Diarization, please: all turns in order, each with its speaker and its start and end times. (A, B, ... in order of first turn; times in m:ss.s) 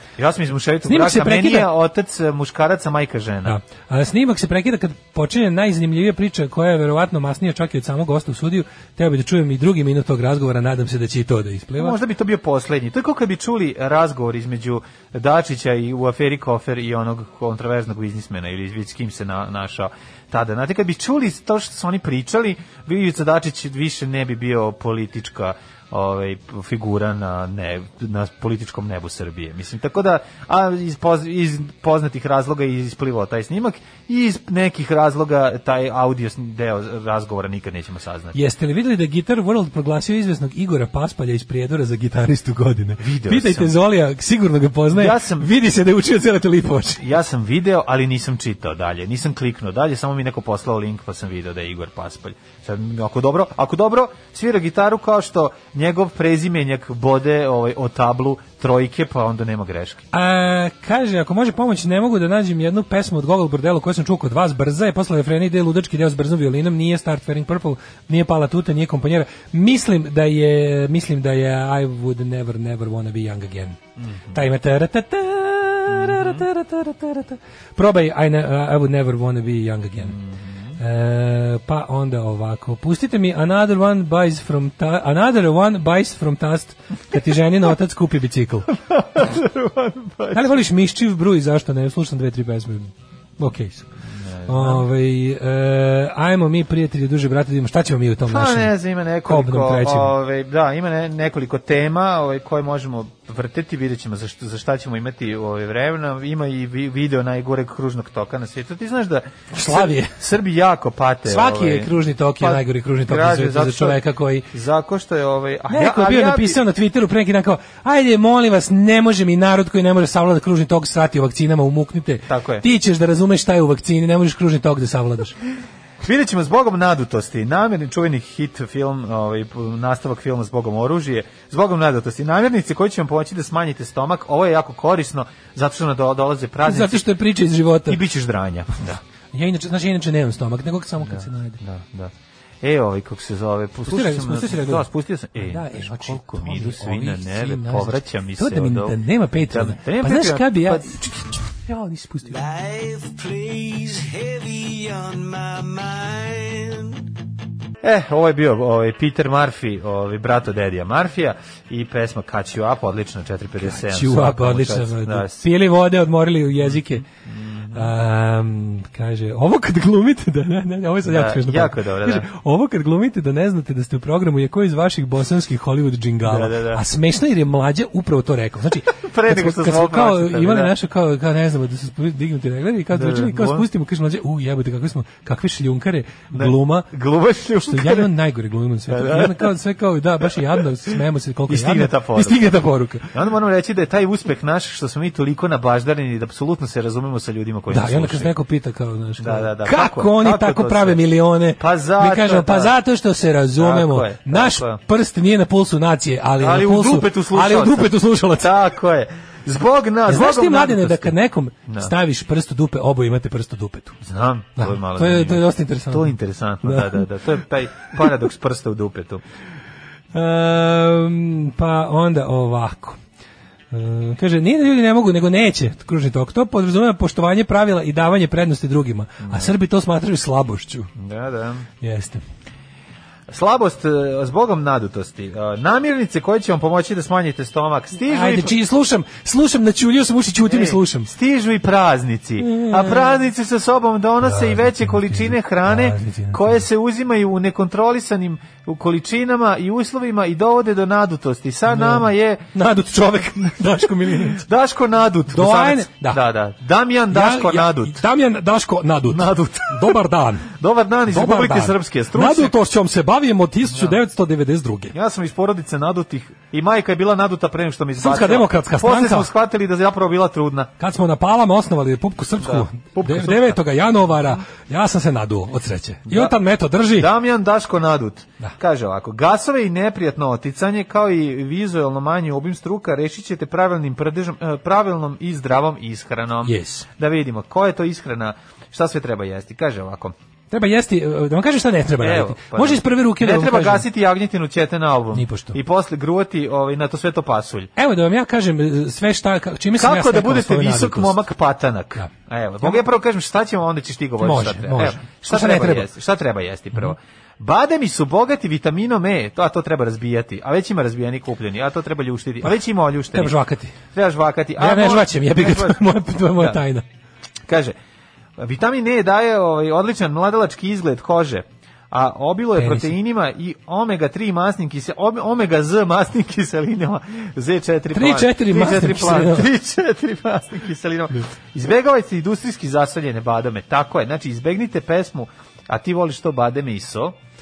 0:00.2-0:03.6 A
0:00.9-0:01.7 B
0:03.4-0:12.0 B
0:11.8-0:38.4 A
0:38.3-0:47.0 B
0:43.0-0:43.8 A
0:44.9-0:45.5 A
0:47.0-1:00.0 A
1:00.1-1:13.8 B
1:14.0-1:14.4 A
1:14.3-1:20.2 B
1:15.9-1:16.4 A
1:20.0-1:20.8 A
1:20.8-1:28.7 B
1:28.9-1:30.6 A
1:30.3-1:33.9 B
1:34.2-1:34.9 A
1:34.5-1:38.7 B
1:38.3-1:56.6 A
1:39.3-1:40.1 B
1:49.5-1:50.2 B
1:51.3-1:54.5 B
1:55.7-2:05.4 B
2:02.3-2:02.6 A
2:06.0-2:17.1 A
2:16.7-2:18.0 B
2:17.9-2:19.0 A
2:19.3-2:21.6 B
2:21.0-2:31.1 A
2:23.9-2:24.9 B
2:25.4-2:32.4 B
2:32.3-2:37.1 C
2:37.8-2:45.5 A
2:43.6-2:47.0 B
2:46.6-2:47.9 A
2:47.7-3:06.9 B
2:51.1-2:52.3 A
2:56.3-2:56.8 A
2:59.0-3:00.7 A
3:02.9-3:03.7 A
3:06.3-3:08.1 A
3:07.7-3:13.1 B
3:08.9-3:09.5 A
3:10.2-3:10.6 A
3:11.5-3:12.6 A
3:13.1-3:18.3 A
3:17.7-3:28.5 B
3:19.2-3:21.0 A
3:21.6-3:22.8 A
3:23.6-3:24.8 A
3:26.4-3:31.2 A
3:30.1-3:34.0 B
3:31.7-3:31.9 A
3:34.0-3:39.2 A
3:34.6-3:37.1 B
3:40.1-3:43.0 B
3:43.7-3:50.9 B
3:49.2-3:49.5 A
3:51.0-3:51.7 A
3:51.8-3:52.2 B
3:53.3-3:58.6 A
3:58.1-4:01.1 B
4:00.4-4:12.4 A
4:02.4-4:03.2 B
4:04.2-4:06.6 B
4:11.7-4:14.4 B
4:14.0-4:18.0 A
4:15.3-4:16.2 B
4:17.1-4:20.5 B
4:19.1-4:20.0 A
4:20.5-4:22.5 A
4:21.1-4:24.9 B
4:23.7-4:24.0 A
4:24.9-4:30.7 A
4:28.0-4:29.3 B
4:30.8-4:37.1 B
4:32.4-4:34.4 A
4:36.1-4:36.4 A
4:36.9-4:50.2 A
4:46.4-4:46.8 B
4:50.5-4:53.9 B
4:52.0-4:57.7 A
4:55.1-4:55.6 B
4:57.8-5:01.2 B
4:59.8-5:13.4 A
5:04.2-5:05.9 B
5:13.1-5:13.8 B
5:13.9-5:16.6 A
5:14.6-5:16.8 B
5:17.5-5:17.8 A
5:18.4-5:37.2 A
5:22.6-5:22.9 B
5:27.9-5:29.5 B